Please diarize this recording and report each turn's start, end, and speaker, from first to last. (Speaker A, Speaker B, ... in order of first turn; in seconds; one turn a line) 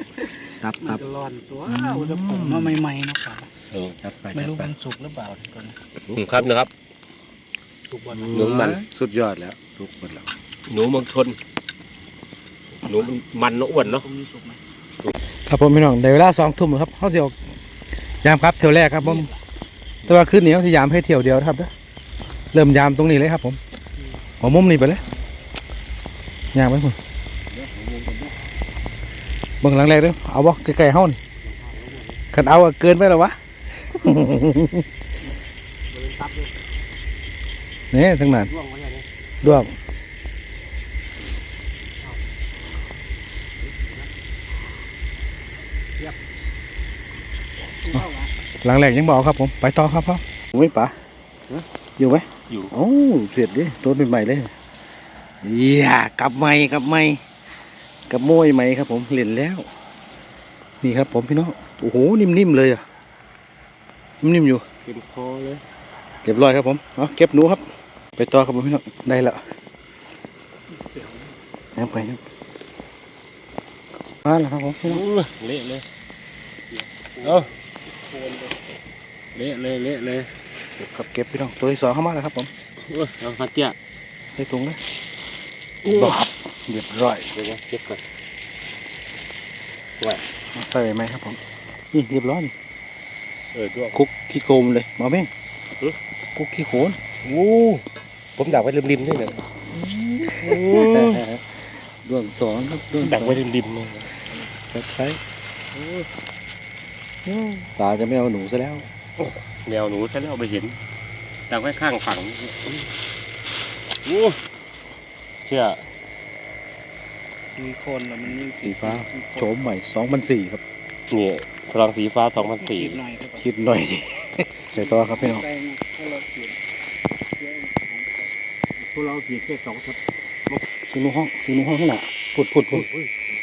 Speaker A: 0.6-1.0
Speaker B: 0.8-3.5
Speaker A: 1.7-2.8
Speaker C: 3.7-4.0
Speaker A: 4.0-4.7
Speaker B: 4.3-5.8
Speaker C: 6.1-6.7
Speaker B: 7.9-8.6
Speaker C: 8.1-8.8
Speaker A: 8.3-10.3
Speaker C: 10.7-11.4
Speaker C: 12.8-14.0
Speaker B: 12.9-14.6
Speaker A: 15.5-17.4
Speaker A: 18.2-19.3
Speaker B: 19.0-19.4
Speaker A: 20.1-21.7
Speaker A: 22.5-23.6
Speaker A: 24.4-25.0
Speaker A: 26.5-27.0
Speaker C: 27.5-28.3
Speaker A: 29.6-31.2
Speaker C: 31.4-32.2
Speaker A: 32.3-34.9
Speaker C: 35.9-36.5
Speaker A: 37.9-38.5
Speaker C: 38.4-39.0
Speaker A: 39.4-39.7
Speaker C: 43.6-44.1
Speaker B: 47.8-48.3
Speaker A: 48.6-51.0
Speaker A: 52.0-54.5
Speaker C: 52.5-52.7
Speaker A: 55.4-57.2
Speaker A: 58.1-59.7
Speaker A: 60.8-62.8
Speaker A: 64.2-64.7
Speaker C: 64.9-65.6
Speaker A: 66.2-67.6
Speaker A: 68.2-69.4
Speaker A: 71.8-72.2
Speaker A: 74.2-75.0
Speaker C: 74.9-75.8
Speaker B: 76.7-78.8
Speaker C: 77.2-77.5
Speaker C: 79.3-80.3
Speaker A: 80.8-82.5
Speaker C: 82.8-83.8
Speaker A: 84.4-84.8
Speaker C: 85.8-86.2
Speaker A: 85.9-87.3
Speaker C: 87.3-88.0
Speaker A: 90.5-91.4
Speaker A: 91.9-92.5
Speaker C: 93.5-94.0
Speaker A: 93.9-95.3
Speaker A: 96.3-97.0
Speaker C: 97.2-97.8
Speaker C: 98.4-99.4
Speaker A: 99.7-101.5
Speaker C: 100.4-101.3
Speaker A: 102.0-103.4
Speaker C: 103.0-104.2
Speaker A: 104.7-105.2
Speaker C: 105.7-106.1
Speaker C: 107.3-107.6
Speaker A: 107.7-108.8
Speaker C: 109.2-110.8
Speaker C: 111.5-112.9
Speaker C: 114.0-114.4
Speaker C: 115.5-115.8
Speaker B: 117.5-119.5
Speaker C: 118.6-119.0
Speaker A: 118.7-120.6
Speaker C: 121.1-123.0
Speaker B: 122.3-123.5
Speaker A: 123.4-125.5
Speaker B: 124.7-126.6
Speaker B: 127.4-128.3
Speaker C: 128.8-130.0
Speaker A: 130.9-132.9
Speaker C: 132.7-133.3